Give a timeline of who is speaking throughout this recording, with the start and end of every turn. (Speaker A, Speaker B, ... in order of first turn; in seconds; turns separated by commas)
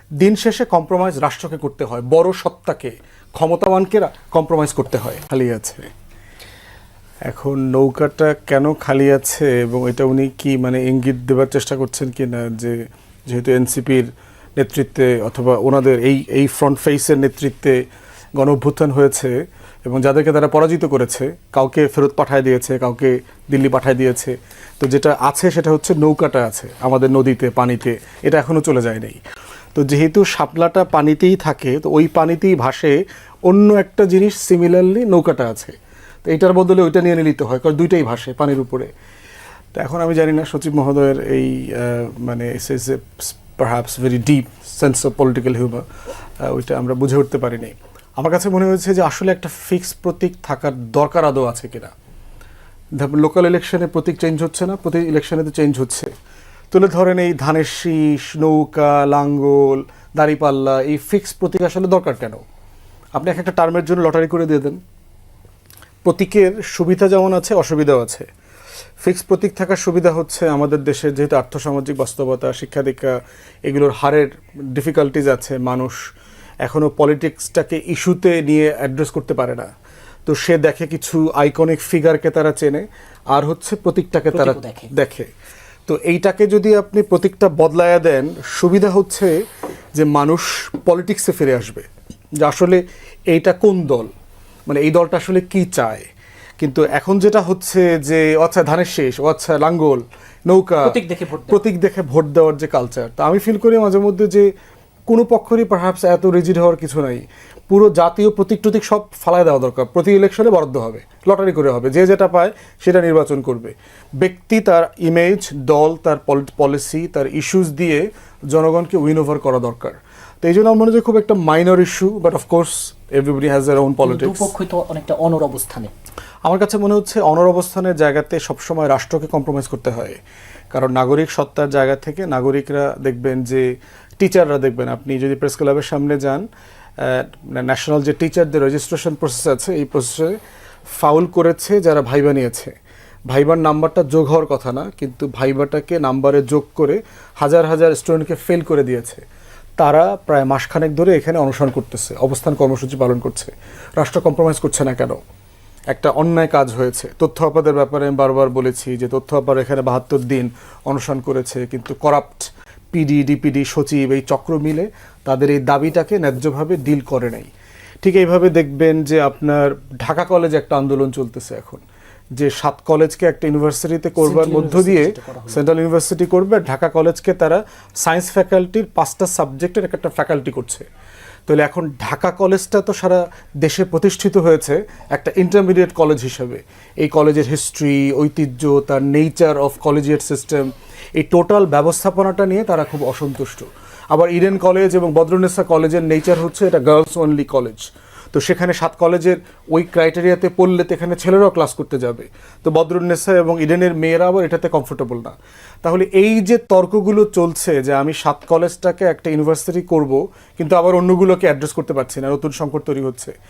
Speaker A: 0.2-5.9, Speaker A: 7.3-17.8, Speaker A: 18.4-29.2, Speaker A: 29.8-38.9, Speaker A: 39.8-45.9, Speaker A: 46.4-51.9, Speaker A: 53.0-56.1, Speaker A: 56.7-62.4, Speaker A: 63.2-64.8, Speaker A: 66.0-68.3, Speaker A: 69.0-76.0, Speaker A: 76.6-79.7, Speaker A: 80.3-85.3, Speaker B: 84.3-84.9, Speaker A: 85.9-89.4, Speaker A: 90.0-91.9, Speaker A: 92.4-94.1, Speaker A: 94.7-96.1, Speaker A: 96.6-104.5, Speaker B: 100.8-101.6, Speaker A: 105.1-124.5, Speaker B: 124.0-125.9, Speaker A: 126.5-130.2, Speaker A: 130.7-133.7, Speaker A: 134.2-136.5, Speaker A: 137.0-140.4, Speaker A: 141.0-142.7, Speaker A: 143.3-149.2, Speaker A: 149.8-155.2, Speaker A: 155.9-167.5, Speaker A: 168.0-171.8, Speaker A: 172.4-180.8, Speaker B: 174.2-175.6, Speaker A: 181.5-213.3